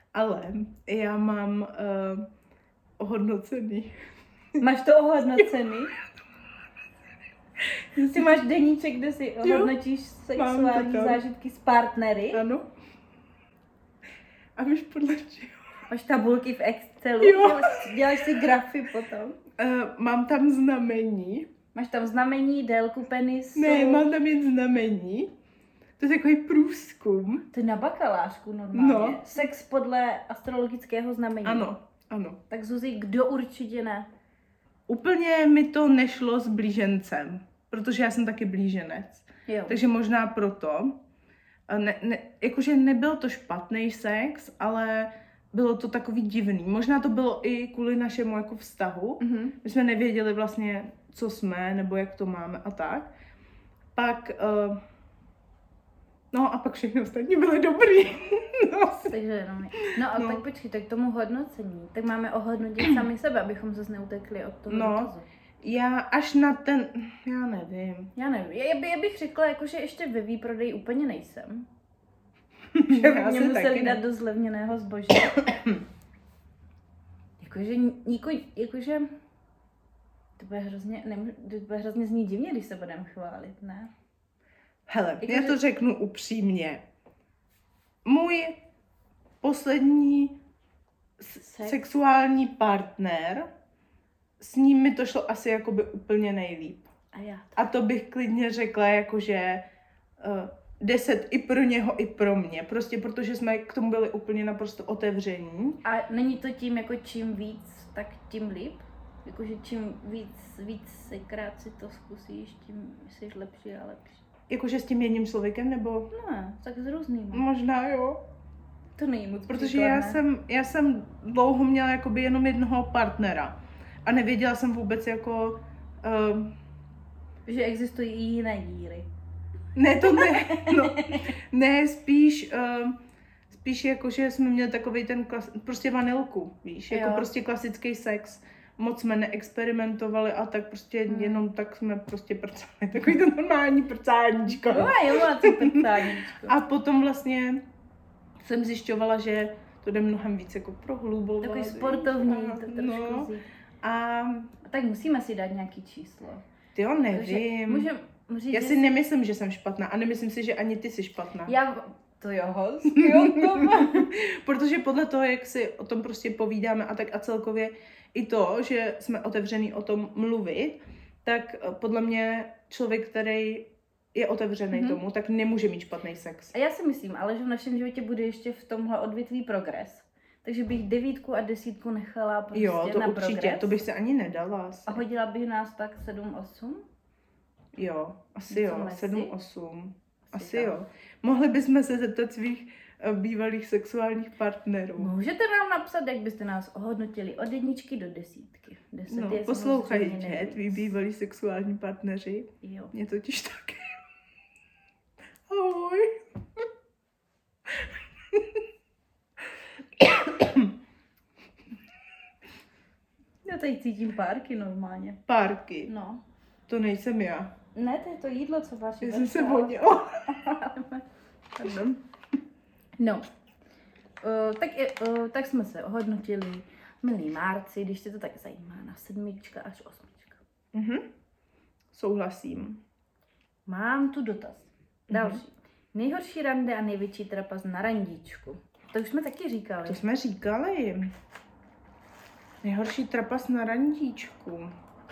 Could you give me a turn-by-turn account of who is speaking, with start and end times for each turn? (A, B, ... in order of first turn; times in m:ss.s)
0:00.1-0:02.3 A
0:03.0-0:03.9 A
0:04.6-0:05.9 B
0:08.0-0:08.4 A
0:08.1-0:12.4 B
0:09.4-0:09.8 A
0:10.4-0:11.2 A
0:12.3-0:12.7 A
0:14.6-0:15.6 A
0:15.9-0:19.4 B
0:17.2-0:18.2 A
0:19.6-0:21.5 A
0:21.8-0:24.1 B
0:23.6-0:25.3 A
0:26.0-0:27.4 A
0:27.5-0:31.7 B
0:28.7-0:29.3 A
0:31.4-0:32.4 A
0:32.5-0:34.1 B
0:34.9-0:41.0 A
0:39.5-0:39.8 B
0:41.7-0:53.1 A
0:49.2-0:49.6 B
0:54.0-0:54.8 A
0:56.3-0:59.1 A
0:59.1-1:05.3 B
0:59.8-1:00.4 A
1:04.7-1:08.1 A
1:08.2-1:11.7 B
1:12.7-1:14.0 A
1:12.9-1:15.5 B
1:15.5-1:15.8 A
1:17.4-1:19.1 B
1:20.4-1:23.9 B
1:24.9-1:26.8 A
1:25.2-1:25.6 B
1:28.0-1:28.6 A
1:29.4-1:30.4 A
1:31.2-1:33.5 A
1:31.4-1:31.8 B
1:34.4-1:36.9 A
1:37.1-1:37.7 B
1:37.6-1:39.6 A
1:40.2-1:45.8 A
1:45.8-1:54.2 B
1:54.5-1:56.1 A
1:56.1-1:57.5 B
1:57.3-1:58.2 A
1:59.0-2:00.2 B
1:59.5-2:06.6 A
2:07.5-2:09.1 B
2:09.8-2:13.0 A
2:10.1-2:11.3 B
2:13.5-2:27.6 A
2:16.9-2:17.3 B
2:21.1-2:21.4 B
2:24.5-2:26.6 B
2:28.4-2:33.3 A
2:31.4-2:33.4 B
2:33.8-2:34.5 A
2:34.6-2:36.4 B
2:36.8-2:37.9 A
2:37.1-2:38.8 B
2:38.5-2:41.6 A
2:41.5-2:44.1 B
2:42.9-2:56.6 A
2:54.7-2:55.0 B
2:56.5-3:03.8 B
3:02.5-3:05.0 A
3:04.9-3:06.8 B
3:07.8-3:15.1 A
3:08.5-3:09.3 B
3:10.3-3:10.8 B
3:15.0-3:20.9 B
3:19.1-3:24.0 A
3:22.6-3:22.9 B
3:25.5-3:26.2 A
3:27.7-3:28.6 A
3:30.0-3:30.7 A
3:33.4-3:35.2 B
3:35.3-3:35.9 A
3:35.9-3:36.2 B
3:36.7-3:37.5 A
3:37.8-3:41.0 B
3:39.0-3:40.4 A
3:41.6-3:42.0 B
3:43.0-3:43.3 B
3:44.2-3:50.4 B
3:50.7-3:51.0 A
3:51.9-3:52.8 A
3:53.7-4:00.0 B
3:55.1-3:55.4 A
3:59.8-4:01.1 A
4:02.6-4:04.7 A